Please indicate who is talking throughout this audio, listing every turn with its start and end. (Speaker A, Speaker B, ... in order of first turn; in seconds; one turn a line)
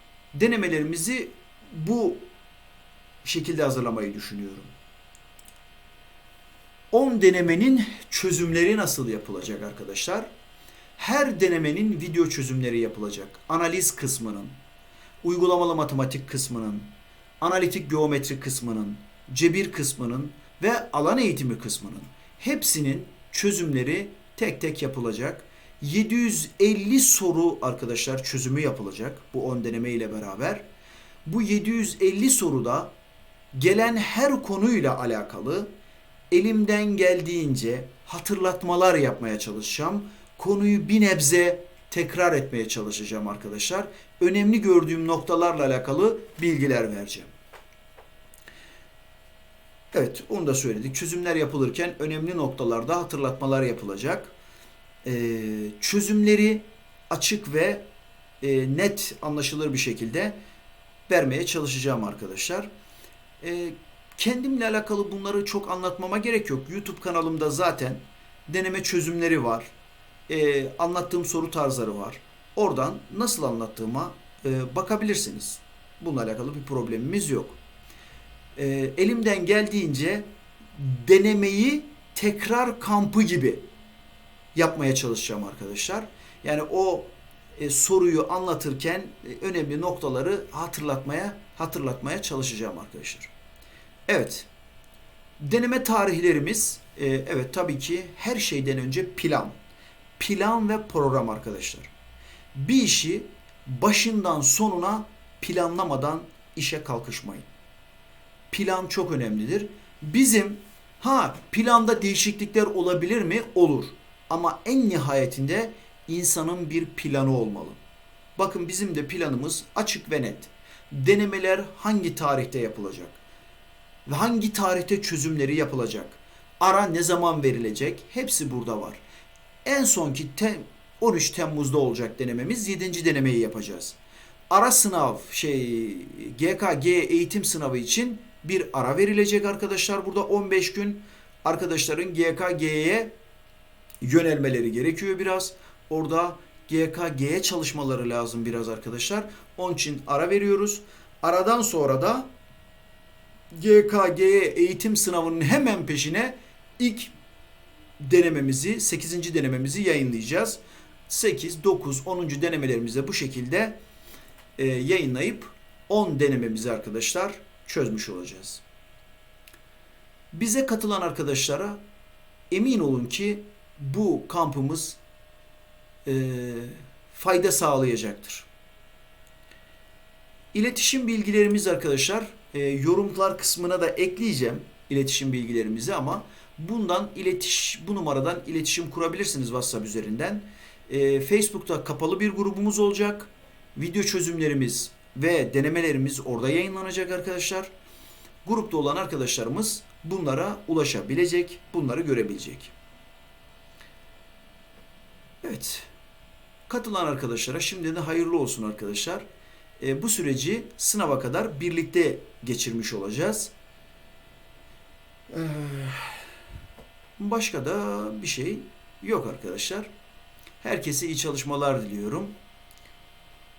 Speaker A: 0.3-2.2
Speaker A: 3.2-4.7
Speaker A: 6.9-10.3
Speaker A: 11.0-14.5
Speaker A: 15.2-30.6
Speaker A: 31.2-32.9
Speaker A: 33.5-35.7
Speaker A: 36.3-47.3
Speaker A: 49.9-54.3
Speaker A: 55.0-57.8
Speaker A: 58.4-60.4
Speaker A: 61.1-62.7
Speaker A: 63.4-69.7
Speaker A: 70.3-77.6
Speaker A: 78.5-83.6
Speaker A: 84.5-93.3
Speaker A: 94.1-94.5
Speaker A: 95.4-99.5
Speaker A: 100.2-101.9
Speaker A: 102.5-107.5
Speaker A: 108.5-117.8
Speaker A: 118.4-123.2
Speaker A: 124.0-129.0
Speaker A: 129.6-134.0
Speaker A: 134.5-143.1
Speaker A: 144.0-152.3
Speaker A: 153.5-157.1
Speaker A: 158.0-163.8
Speaker A: 164.6-168.6
Speaker A: 170.3-171.8
Speaker A: 172.5-175.0
Speaker A: 176.0-178.5
Speaker A: 180.5-197.7
Speaker A: 198.4-202.7
Speaker A: 205.4-205.9
Speaker A: 206.7-209.2
Speaker A: 209.8-213.5
Speaker A: 215.3-216.2
Speaker A: 217.2-219.9
Speaker A: 220.6-222.3